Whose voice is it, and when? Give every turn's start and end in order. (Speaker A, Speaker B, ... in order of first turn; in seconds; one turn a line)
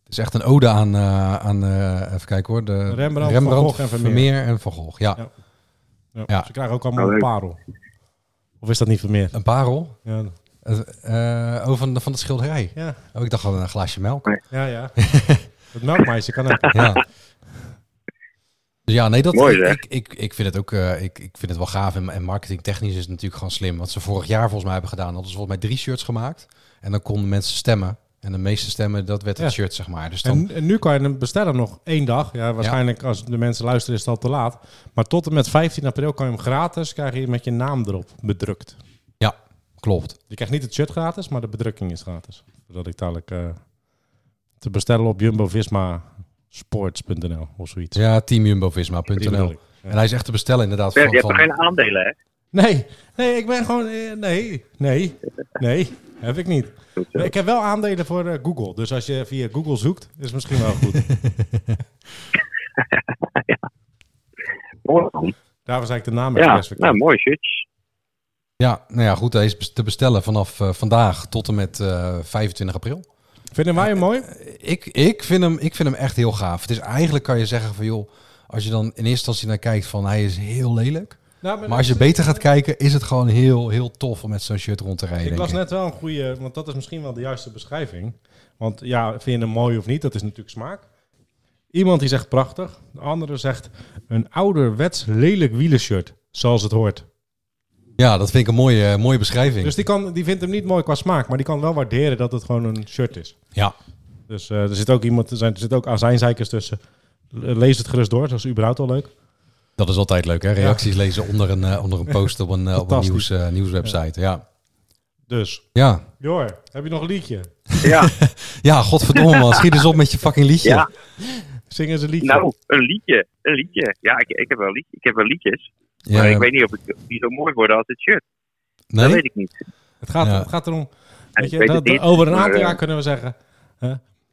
Speaker A: 0.1-5.2
Speaker B: 2.9-4.3
Speaker B: 6.1-7.6
Speaker C: 7.0-7.3
Speaker B: 8.6-9.3
Speaker A: 9.3-10.0
Speaker B: 10.0-10.3
Speaker A: 10.6-14.3
Speaker B: 14.5-15.0
Speaker A: 15.0-15.5
Speaker B: 15.7-16.8
Speaker A: 16.7-17.0
Speaker A: 18.9-30.4
Speaker C: 19.3-19.8
Speaker B: 30.2-38.8
Speaker A: 39.2-40.2
Speaker B: 40.3-43.6
Speaker B: 44.6-48.0
Speaker A: 48.0-51.5
Speaker B: 49.1-50.0
Speaker C: 51.0-52.1
Speaker B: 52.5-61.1
Speaker C: 57.0-57.3
Speaker A: 61.0-61.8
Speaker C: 62.9-63.7
Speaker C: 64.8-65.3
Speaker B: 65.7-67.0
Speaker C: 66.4-67.6
Speaker A: 68.6-73.1
Speaker B: 73.5-74.3
Speaker A: 73.8-85.6
Speaker B: 81.4-82.5
Speaker B: 85.2-90.8
Speaker B: 91.7-97.1
Speaker A: 98.0-99.8
Speaker B: 99.6-103.4
Speaker B: 104.3-106.8
Speaker B: 107.3-109.1
Speaker A: 109.8-114.4
Speaker B: 110.6-110.8
Speaker B: 112.8-113.3
Speaker B: 115.3-115.7
Speaker A: 115.7-116.1
Speaker B: 116.2-117.5
Speaker A: 117.7-120.9
Speaker C: 117.8-118.1
Speaker C: 119.2-119.8
Speaker B: 121.2-122.5
Speaker C: 122.2-128.2
Speaker A: 126.1-126.5
Speaker A: 128.9-129.2
Speaker C: 129.0-129.5
Speaker B: 130.0-134.0
Speaker A: 130.2-130.5
Speaker C: 131.4-132.8